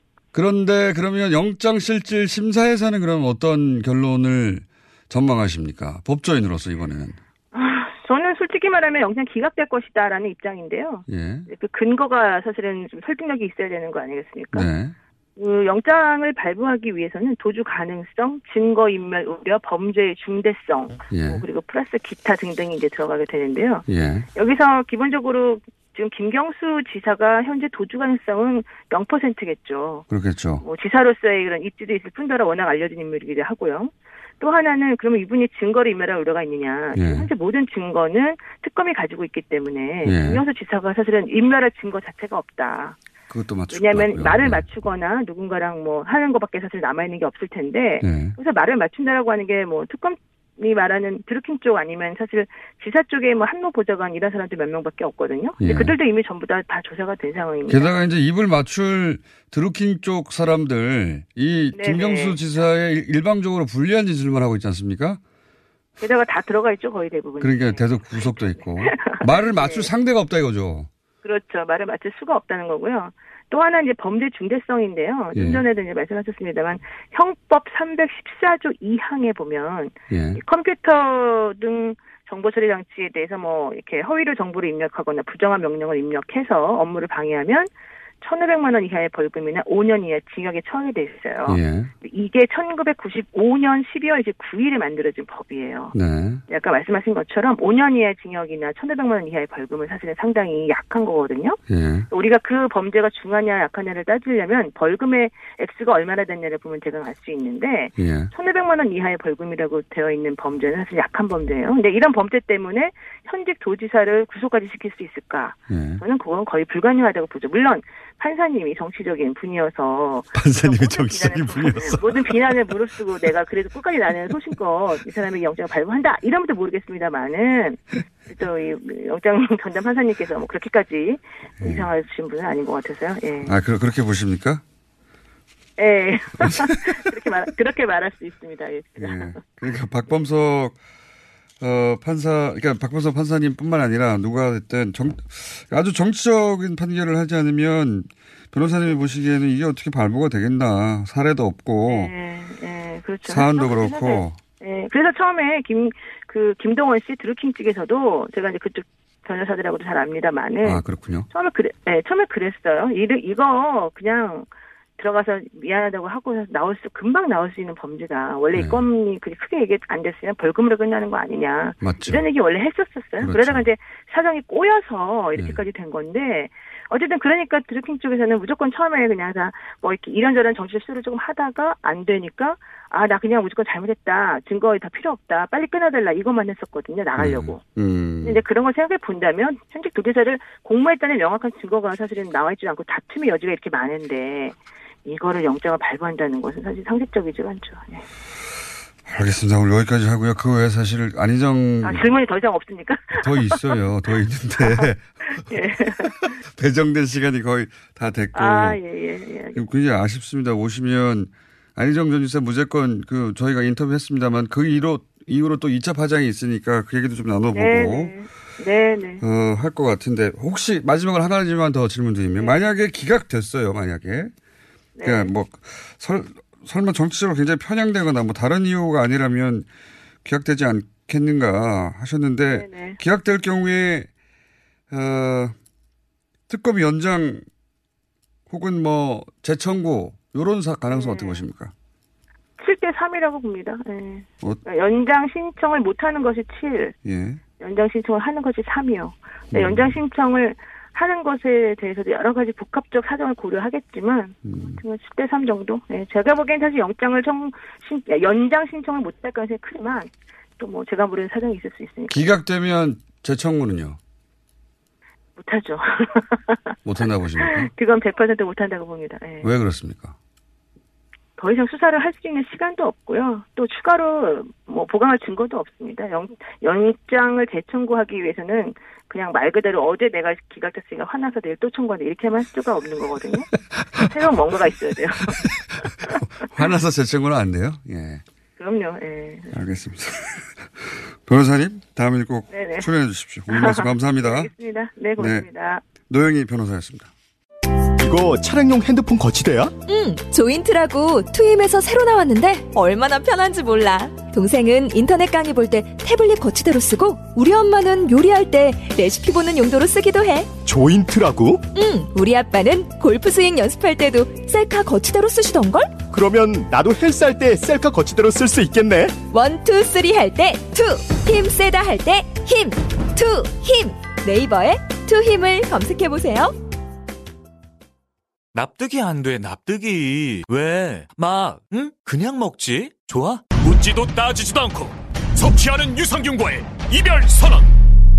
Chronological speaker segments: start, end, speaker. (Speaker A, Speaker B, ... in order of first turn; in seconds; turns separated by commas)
Speaker A: 0.3-7.2, Speaker B: 7.5-14.7, Speaker A: 11.1-11.5, Speaker A: 14.5-14.9, Speaker B: 15.4-30.1, Speaker A: 21.1-21.4, Speaker A: 23.9-24.3, Speaker A: 30.1-30.6, Speaker B: 30.6-43.0, Speaker A: 36.9-37.3, Speaker A: 40.0-40.4, Speaker A: 43.3-44.6, Speaker B: 43.7-58.0, Speaker A: 48.0-48.4, Speaker A: 55.6-56.0, Speaker A: 57.7-65.2, Speaker B: 61.7-62.4, Speaker B: 66.0-69.9, Speaker A: 67.4-70.9, Speaker B: 71.2-87.7, Speaker A: 75.3-75.6, Speaker A: 80.1-80.4, Speaker B: 88.2-95.9, Speaker A: 91.5-91.9, Speaker A: 95.9-96.4, Speaker B: 96.5-101.6, Speaker A: 101.7-102.1, Speaker B: 102.1-133.6, Speaker A: 108.0-108.3, Speaker A: 115.7-116.0, Speaker A: 120.3-122.8, Speaker A: 131.6-131.9, Speaker A: 133.4-134.6, Speaker B: 135.8-139.4, Speaker A: 136.4-136.9, Speaker A: 139.0-140.8, Speaker A: 141.6-152.1, Speaker B: 151.9-187.6, Speaker A: 153.3-154.4, Speaker A: 160.6-161.3, Speaker A: 168.6-168.8, Speaker A: 171.8-172.2, Speaker A: 173.2-173.7, Speaker A: 187.2-188.4, Speaker B: 188.2-198.0, Speaker A: 199.1-202.1, Speaker B: 201.8-203.8, Speaker A: 203.1-205.1, Speaker B: 205.4-206.3, Speaker A: 206.0-208.8, Speaker B: 208.3-209.7, Speaker A: 209.6-218.1, Speaker B: 217.5-219.2, Speaker A: 219.2-224.3, Speaker B: 225.0-225.3, Speaker A: 225.0-229.7, Speaker A: 230.2-234.1, Speaker B: 232.5-233.0, Speaker A: 234.9-235.6, Speaker A: 236.5-237.4, Speaker A: 238.5-241.7, Speaker B: 240.9-241.4, Speaker B: 242.6-246.9, Speaker A: 247.1-247.4, Speaker B: 247.6-262.2, Speaker A: 249.5-249.9, Speaker A: 254.4-254.8, Speaker A: 262.1-264.0, Speaker B: 265.4-269.5, Speaker A: 266.9-267.7, Speaker A: 269.4-270.1, Speaker B: 271.4-285.5, Speaker A: 285.3-288.2, Speaker B: 288.6-289.6, Speaker A: 289.5-294.5, Speaker B: 292.5-292.9, Speaker B: 293.5-295.9, Speaker A: 295.2-295.5, Speaker A: 296.0-297.1, Speaker C: 298.0-299.8, Speaker D: 299.9-310.5, Speaker C: 310.6-311.7, Speaker D: 311.8-316.0, Speaker C: 316.1-319.2, Speaker D: 319.3-326.6, Speaker E: 328.5-337.7